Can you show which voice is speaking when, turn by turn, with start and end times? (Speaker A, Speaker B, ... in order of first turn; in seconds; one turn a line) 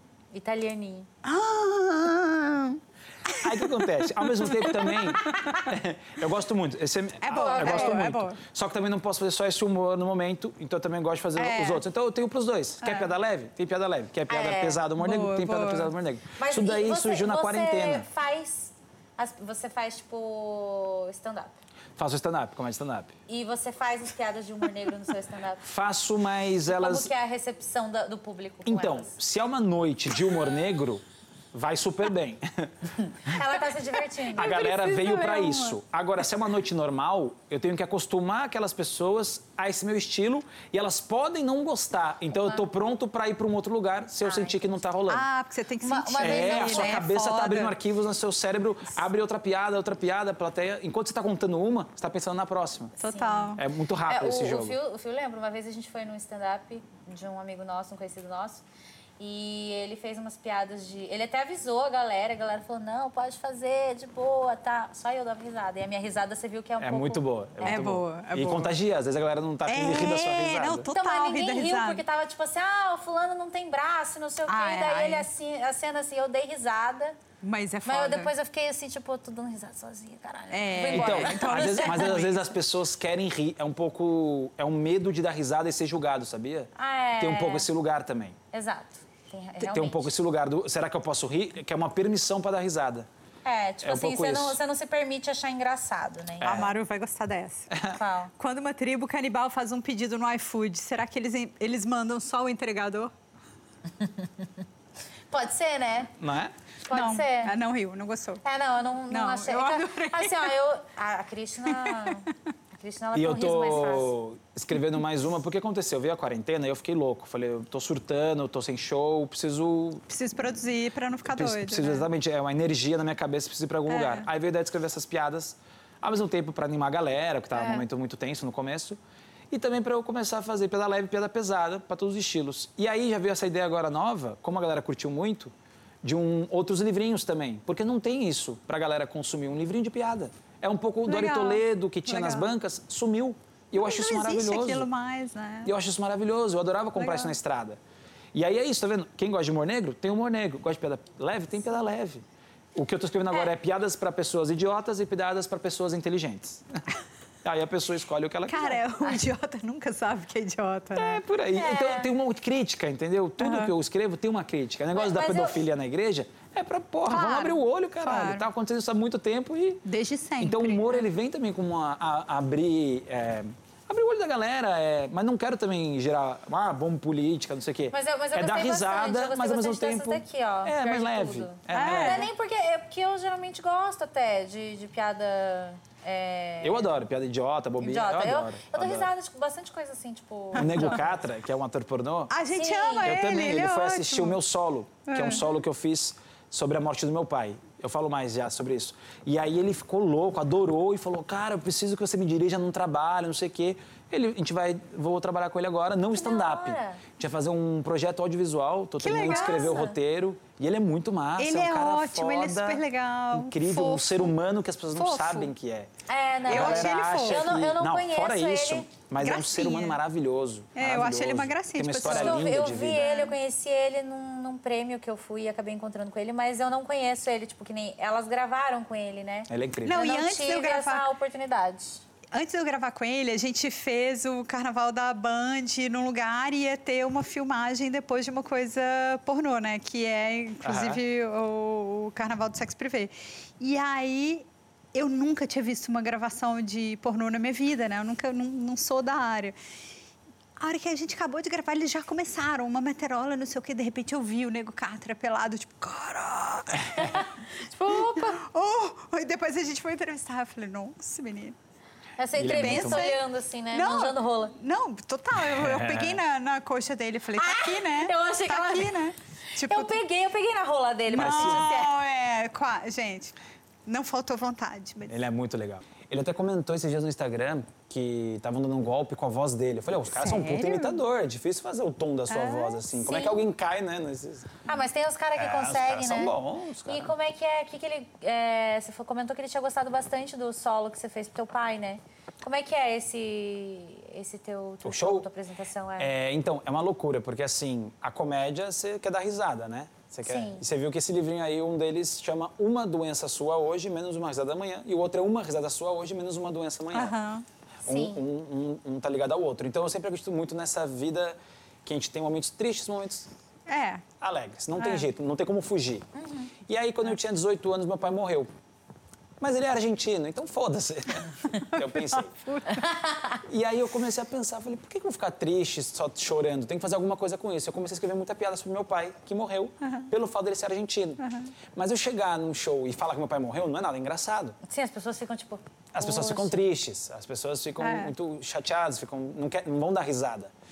Speaker A: 0.3-1.1
Speaker B: 1.2-5.7
Speaker C: 3.4-18.1
Speaker B: 7.2-8.4
Speaker A: 7.3-8.1
Speaker B: 11.3-11.8
Speaker B: 12.8-13.1
Speaker A: 14.3-14.8
Speaker B: 15.0-15.9
Speaker A: 16.4-21.6
Speaker C: 22.0-23.1
Speaker A: 23.3-25.6
Speaker C: 25.6-27.1
Speaker A: 26.6-29.1
Speaker C: 28.6-33.4
Speaker A: 33.2-34.6
Speaker C: 34.3-45.2
Speaker B: 34.4-35.8
Speaker A: 44.2-44.5
Speaker B: 45.1-47.7
Speaker A: 45.8-47.0
Speaker C: 46.2-53.0
Speaker A: 53.0-53.5
Speaker B: 53.0-53.6
Speaker C: 53.5-54.8
Speaker A: 54.1-58.6
Speaker A: 59.2-67.9
Speaker C: 66.8-70.9
Speaker B: 67.6-68.8
Speaker B: 69.7-72.0
Speaker A: 70.9-77.2
Speaker B: 74.5-75.3
Speaker B: 77.4-78.3
Speaker A: 77.8-82.3
Speaker B: 80.5-82.4
Speaker C: 80.9-88.4
Speaker A: 86.8-87.7
Speaker A: 88.5-90.1
Speaker C: 89.6-93.1
Speaker A: 93.4-96.6
Speaker C: 93.8-94.6
Speaker C: 96.4-96.7
Speaker B: 96.4-97.7
Speaker C: 97.7-98.0
Speaker A: 97.9-98.3
Speaker B: 98.4-103.1
Speaker A: 105.3-106.1
Speaker C: 106.2-106.5
Speaker A: 106.8-107.5
Speaker B: 106.9-108.4
Speaker A: 108.4-114.1
Speaker B: 109.1-110.5
Speaker B: 111.7-112.2
Speaker C: 113.1-120.0
Speaker B: 120.1-122.1
Speaker C: 121.2-129.0
Speaker B: 123.9-124.3
Speaker C: 129.5-135.5
Speaker C: 136.0-144.9
Speaker B: 141.1-142.5
Speaker B: 143.8-145.7
Speaker C: 145.6-147.8
Speaker B: 147.0-147.3
Speaker C: 148.3-152.2
Speaker C: 152.7-156.8
Speaker C: 157.4-159.2
Speaker B: 158.5-161.2
Speaker C: 160.9-169.8
Speaker A: 161.5-162.1
Speaker B: 163.4-163.7
Speaker A: 164.9-165.6
Speaker B: 167.1-168.4
Speaker B: 169.8-171.0
Speaker C: 170.4-182.3
Speaker A: 177.9-187.0
Speaker B: 181.7-182.3
Speaker C: 186.6-189.1
Speaker A: 187.8-191.2
Speaker C: 190.6-192.3
Speaker B: 190.6-190.9
Speaker B: 192.3-194.4
Speaker A: 192.5-193.2
Speaker C: 193.0-215.9
Speaker B: 195.1-195.4
Speaker A: 206.2-207.0
Speaker B: 209.0-209.8
Speaker A: 209.2-209.9
Speaker B: 211.4-214.3
Speaker B: 214.9-215.5
Speaker A: 216.1-218.9
Speaker B: 216.5-217.4
Speaker C: 216.5-223.1
Speaker B: 219.2-220.0
Speaker B: 220.7-222.5
Speaker A: 222.0-232.0
Speaker B: 223.0-223.3
Speaker C: 229.5-230.1
Speaker B: 229.8-231.1
Speaker B: 232.3-249.5
Speaker C: 240.6-241.0
Speaker B: 250.6-257.2
Speaker A: 257.0-258.4
Speaker B: 258.3-261.6
Speaker A: 262.2-264.5
Speaker C: 262.4-263.1
Speaker B: 262.5-263.2
Speaker B: 263.7-270.0
Speaker C: 265.3-266.2
Speaker A: 267.4-269.0
Speaker A: 269.7-271.9
Speaker C: 271.1-271.7
Speaker B: 271.1-273.3
Speaker B: 273.9-275.2
Speaker C: 275.1-284.6
Speaker B: 280.1-281.0
Speaker B: 282.3-282.8
Speaker A: 283.0-283.4
Speaker A: 284.7-286.3
Speaker C: 285.3-287.1
Speaker A: 286.9-296.1
Speaker C: 294.8-295.3
Speaker C: 296.0-307.1
Speaker A: 300.2-300.6
Speaker B: 306.9-307.4
Speaker A: 307.9-308.2
Speaker C: 307.9-313.3
Speaker B: 313.7-314.0
Speaker C: 314.2-316.1
Speaker B: 314.8-315.1
Speaker A: 316.2-316.5
Speaker C: 316.6-318.5
Speaker C: 319.4-322.4
Speaker B: 321.6-322.8
Speaker A: 322.8-323.4
Speaker C: 323.4-334.6
Speaker B: 331.2-331.5
Speaker A: 334.6-336.6
Speaker C: 335.9-340.5
Speaker B: 337.8-338.1